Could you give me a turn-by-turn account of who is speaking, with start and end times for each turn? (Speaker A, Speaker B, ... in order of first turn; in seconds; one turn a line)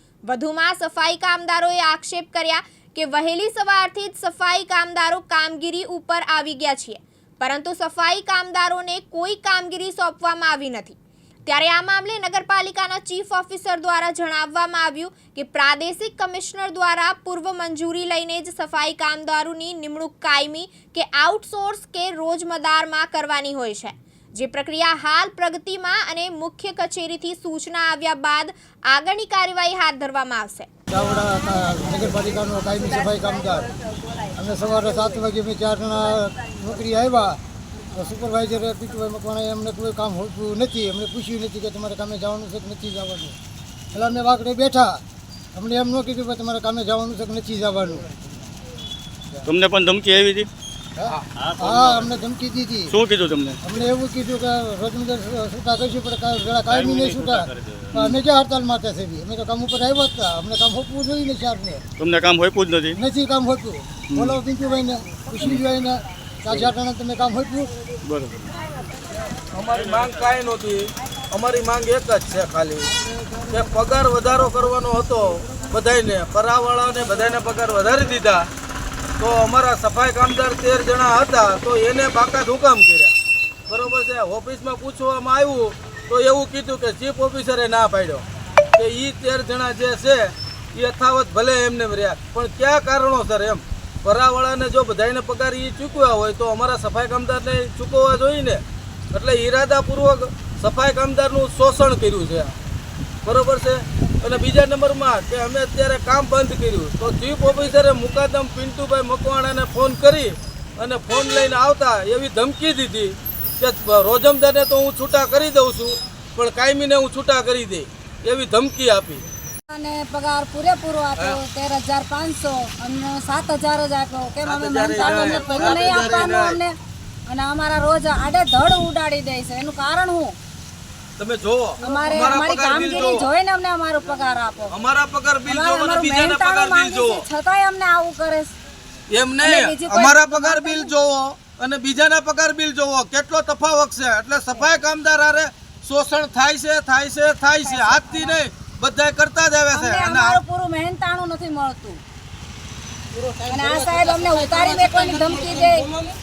Speaker A: 0.2-30.7
Speaker B: 30.9-33.7
Speaker B: 34.4-37.4
Speaker B: 37.9-43.4
Speaker B: 43.9-45.0
Speaker B: 45.5-48.0
Speaker C: 49.4-50.5
Speaker B: 51.0-53.0
Speaker C: 52.9-53.6
Speaker B: 53.6-61.8
Speaker C: 56.9-57.1
Speaker C: 62.0-63.0
Speaker B: 62.9-67.7
Speaker C: 64.1-64.4
Speaker C: 68.0-68.4
Speaker D: 69.5-72.9
Speaker D: 73.5-78.5
Speaker D: 79.2-83.1
Speaker D: 83.7-88.2
Speaker D: 88.7-102.5
Speaker D: 103.2-119.2
Speaker E: 119.7-126.8
Speaker D: 124.4-126.6
Speaker E: 127.3-130.3
Speaker D: 131.2-133.2
Speaker E: 131.8-134.8
Speaker D: 134.7-137.2
Speaker E: 135.4-138.5
Speaker D: 139.1-150.4
Speaker E: 139.4-140.9
Speaker E: 147.6-148.4
Speaker E: 149.7-152.0
Speaker E: 153.4-155.9
Speaker D: 153.9-155.7